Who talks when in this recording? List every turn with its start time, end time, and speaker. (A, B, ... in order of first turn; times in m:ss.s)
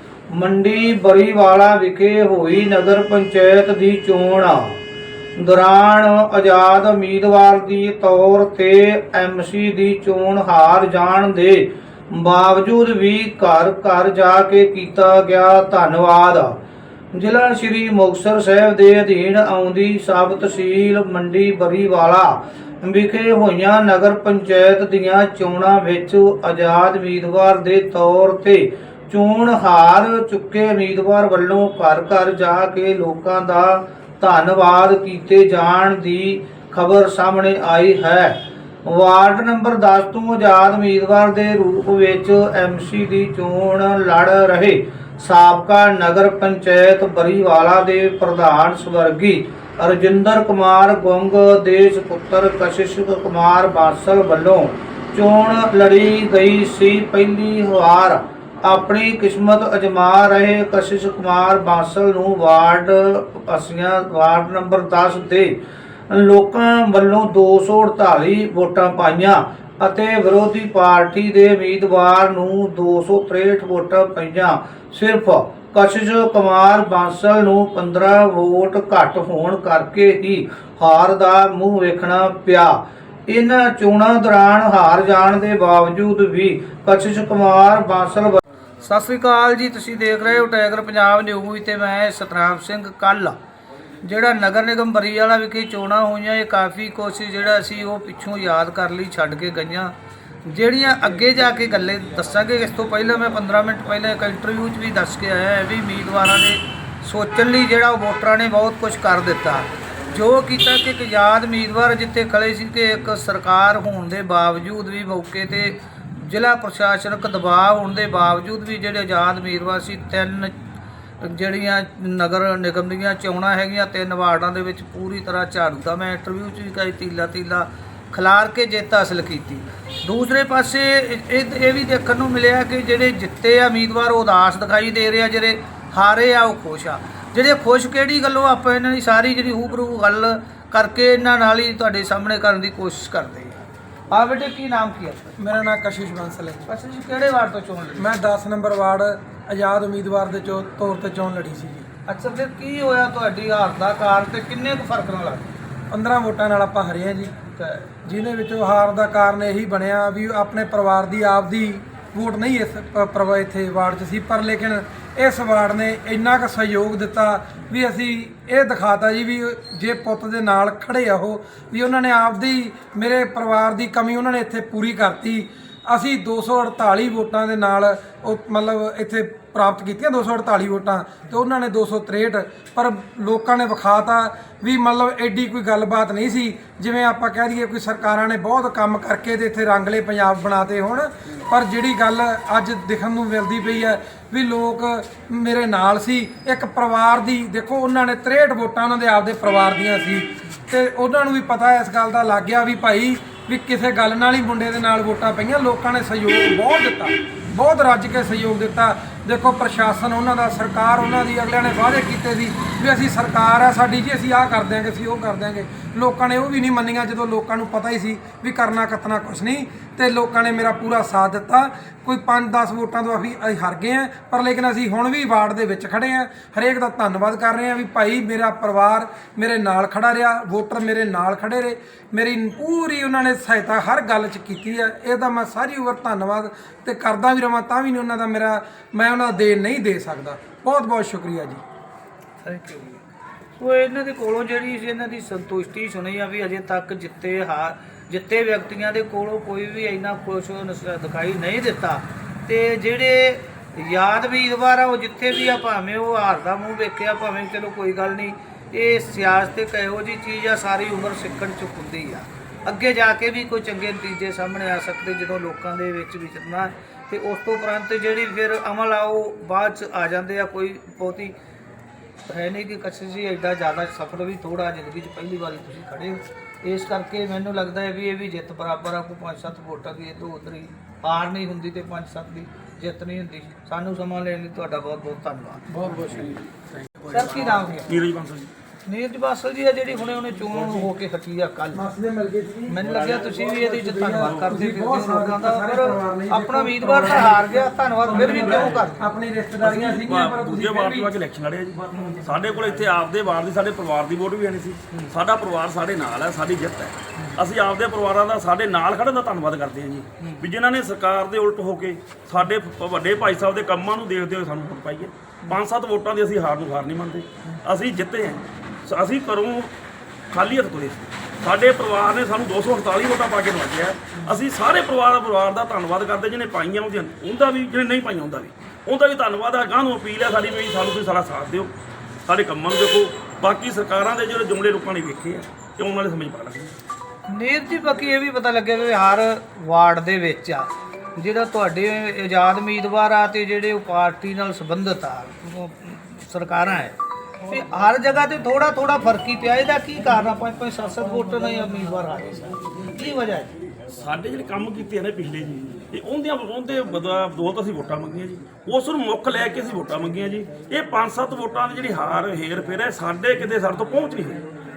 0:00.3-0:04.8 A
0:05.4-0:16.6 A
0:17.1-1:05.6 A
1:06.1-1:33.4 A
1:34.0-2:00.5 A
2:01.2-2:25.4 A
2:25.4-2:26.7 B
2:26.7-2:28.1 A
2:28.0-2:31.9 B
2:32.1-2:35.5 A
2:35.9-2:37.3 B
2:37.5-2:37.9 A
2:38.0-4:01.6 B
4:02.4-4:03.0 A
4:03.6-4:31.4 A
4:32.2-4:45.6 A
4:45.7-4:46.4 B
4:47.0-4:48.5 C
4:47.1-4:47.9 A
4:48.9-4:51.9 A
4:51.7-5:01.1 B
4:52.7-4:59.0 A
4:52.9-4:53.2 C
4:54.2-4:54.6 C
4:58.2-4:58.8 C
4:59.6-5:19.7 C
5:20.3-5:31.7 C
5:32.3-5:36.8 C
5:37.3-5:53.6 A
5:54.0-6:04.4 C